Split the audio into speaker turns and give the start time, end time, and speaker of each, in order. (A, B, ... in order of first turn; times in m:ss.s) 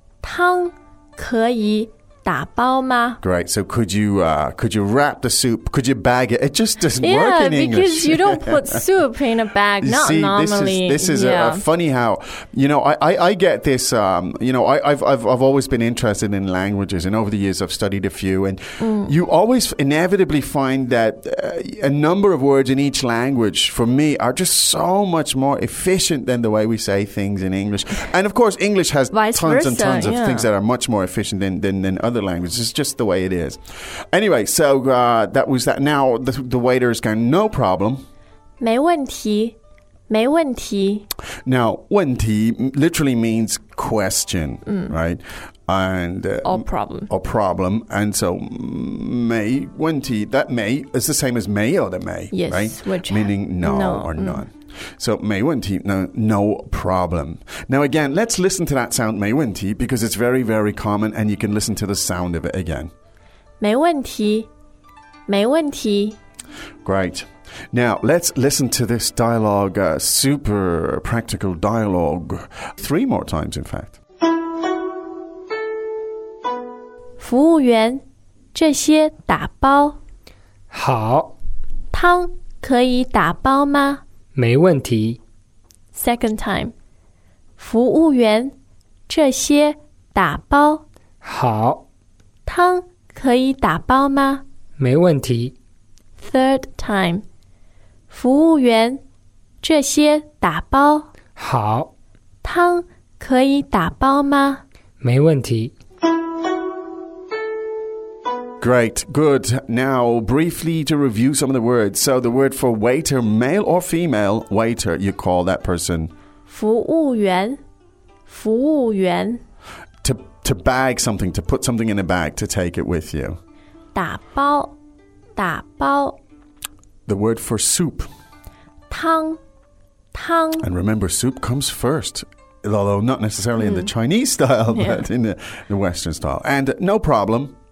0:00.2-0:03.2 A
0:03.2-0:08.8 B
0:07.0-0:11.6 A
0:09.8-0:33.6 B
0:18.8-0:19.1 A
0:29.1-0:30.5 A
0:34.1-0:38.0 B
0:38.6-0:39.6 A
0:40.1-0:41.1 A
0:41.4-1:02.9 B
0:46.4-0:47.1 A
0:52.3-0:54.4 A
1:03.6-1:04.5 A
1:05.3-1:06.2 A
1:06.8-1:14.0 B
1:17.2-1:18.0 A
1:18.5-1:20.0 A
1:20.7-1:21.3 C
1:21.9-1:24.0 A
1:24.3-1:25.2 C
1:25.9-1:26.7 A
1:27.6-1:28.5 A
1:29.1-1:30.8 A
1:31.2-1:31.8 C
1:32.4-1:34.4 A
1:34.8-1:35.5 C
1:36.2-1:37.2 A
1:38.1-1:39.0 A
1:39.6-1:41.1 A
1:41.4-1:41.9 C
1:42.4-1:44.6 A
1:45.0-1:45.7 C
1:48.6-1:56.1 B
1:56.5-1:57.6 A
1:58.3-1:59.4 A
2:00.0-2:03.4 B
2:03.9-2:04.8 A
2:05.4-2:06.2 A
2:07.1-2:08.1 B
2:08.9-2:09.4 A
2:10.1-2:10.6 A
2:10.6-2:17.5 B
2:13.6-2:13.9 A
2:14.7-2:15.0 A